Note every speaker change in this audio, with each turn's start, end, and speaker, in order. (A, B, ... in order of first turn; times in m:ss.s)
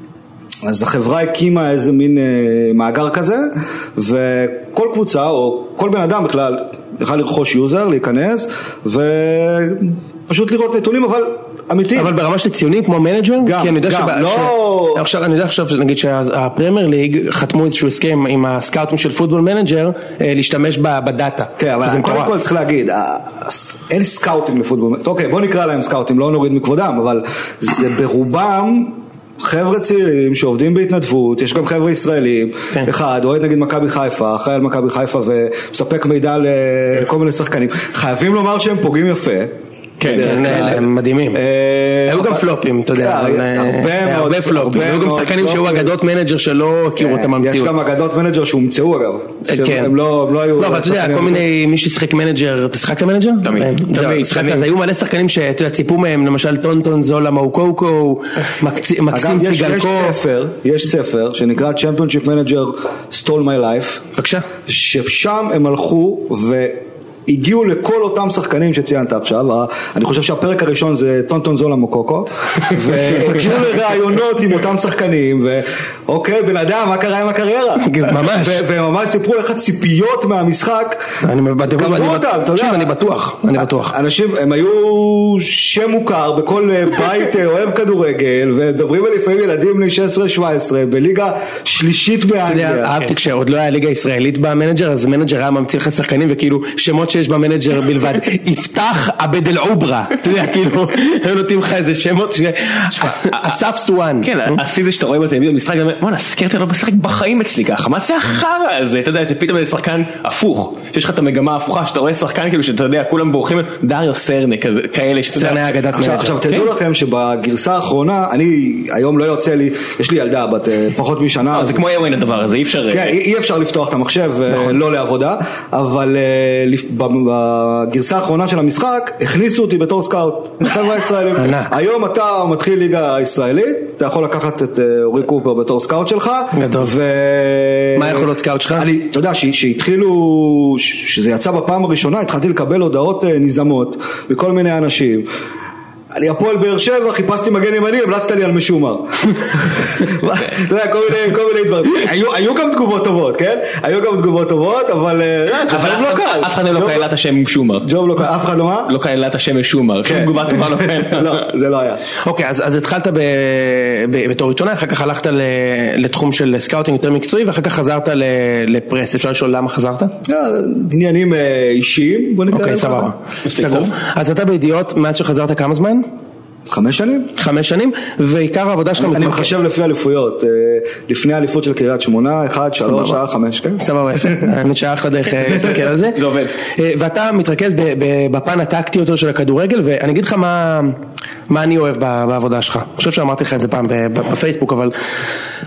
0:00.6-0:12.1 A
0:11.9-0:22.3 B
0:13.4-0:15.0 A
0:21.6-0:45.9 A
0:40.0-0:40.8 C
0:40.2-0:41.4 B
0:42.0-0:47.7 B
0:47.0-0:51.5 A
0:49.4-0:49.9 B
0:50.6-1:00.2 B
0:53.4-0:54.7 C
0:59.1-1:04.0 A
1:04.1-1:04.4 B
1:04.7-1:22.9 A
1:17.8-1:18.6 B
1:21.2-1:24.0 B
1:23.5-1:33.0 A
1:32.5-1:44.6 B
1:43.0-1:43.6 C
1:44.2-1:56.7 C
1:55.3-1:56.3 B
1:55.9-2:01.8 A
2:01.5-2:03.2 C
2:02.9-2:25.3 A
2:11.3-2:11.7 B
2:16.5-2:16.9 B
2:17.9-2:18.9 B
2:26.1-2:37.1 A
2:35.7-2:37.9 C
2:37.8-2:38.9 A
2:38.9-2:41.4 C
2:40.0-2:42.0 A
2:42.2-2:50.1 B
2:50.2-2:53.1 A
2:52.5-2:56.0 B
2:53.4-2:53.9 C
2:56.7-2:57.3 A
2:57.4-2:59.5 B
2:59.0-3:04.5 A
3:02.8-3:03.2 B
3:03.8-3:11.0 B
3:05.6-3:06.5 C
3:11.5-3:14.9 B